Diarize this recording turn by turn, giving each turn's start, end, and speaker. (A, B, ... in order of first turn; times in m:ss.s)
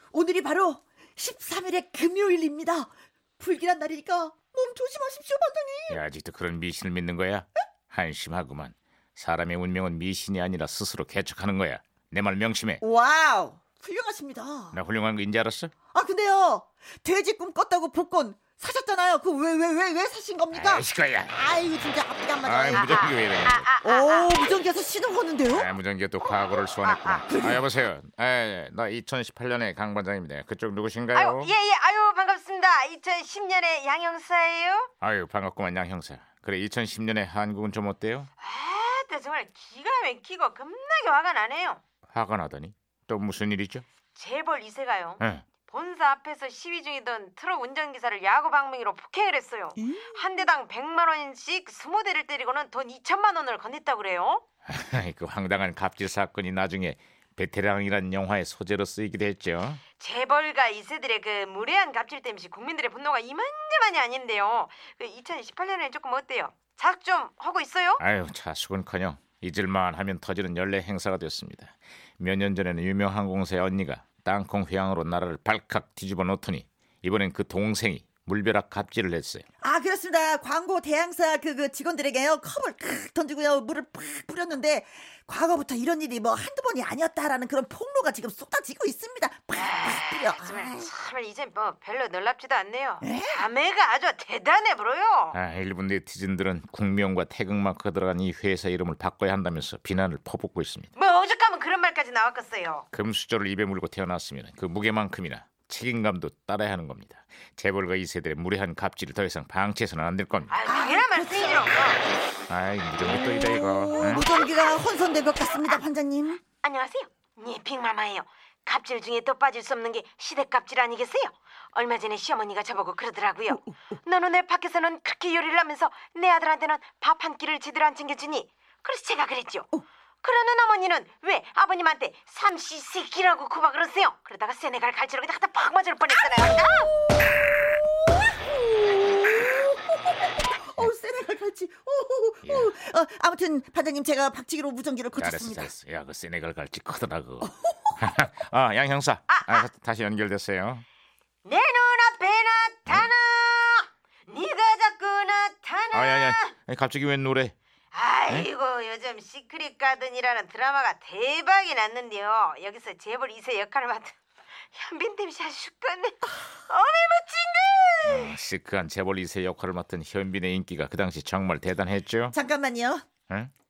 0:00.1-0:06.0 A
0:05.9-0:12.8 B
0:12.8-0:14.8 A
0:14.7-0:15.7 B
0:15.9-0:23.1 A
0:20.5-0:21.4 B
0:22.4-0:23.7 B
0:22.7-0:24.5 C
0:23.8-0:25.7 A
0:25.5-0:31.5 B
0:26.8-0:27.2 C
0:27.2-0:27.7 A
0:31.1-0:34.9 C
0:35.0-0:38.3 B
0:38.4-0:41.8 C
0:42.1-0:43.8 B
0:44.2-0:54.4 C
0:45.2-0:45.5 B
0:54.7-0:59.8 B
1:00.0-1:08.0 C
1:08.0-1:19.4 B
1:19.6-1:30.9 A
1:29.6-1:35.4 C
1:33.0-1:33.4 A
1:35.3-1:40.9 B
1:41.0-1:42.9 C
1:42.9-1:50.6 B
1:50.5-1:52.0 C
1:50.7-1:51.8 A
1:52.5-1:54.4 B
1:53.1-1:56.4 A
1:56.6-2:16.9 C
2:18.3-2:25.7 A
2:22.4-2:22.7 B
2:25.2-2:30.8 B
2:27.4-2:27.9 A
2:29.3-2:29.7 C
2:31.4-2:36.5 C
2:35.9-2:37.6 B
2:37.9-2:44.2 C
2:44.7-2:48.3 C
2:48.0-2:52.4 B
2:52.3-2:53.1 A